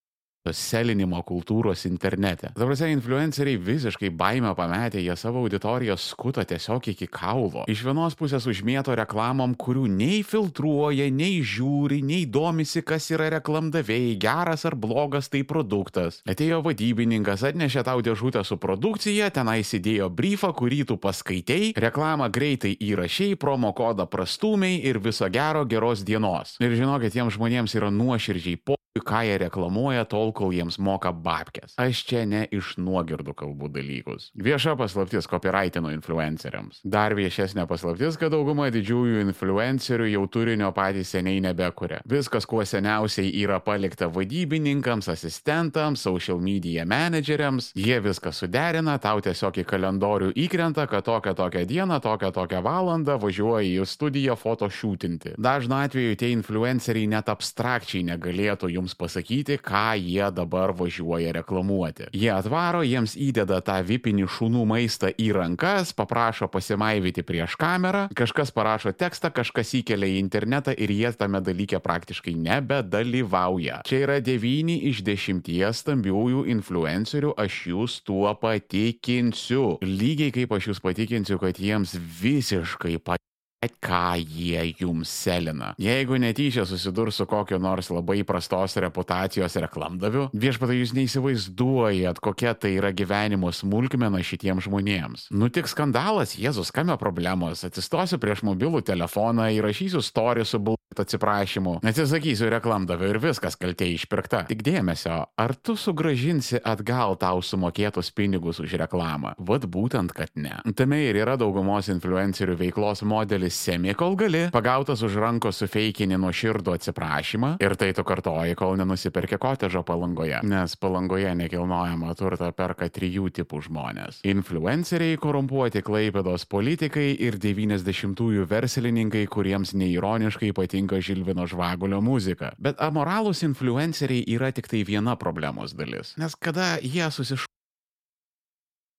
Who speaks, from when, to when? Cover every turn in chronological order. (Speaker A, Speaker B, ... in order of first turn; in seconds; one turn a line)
Speaker A: 0.4-137.5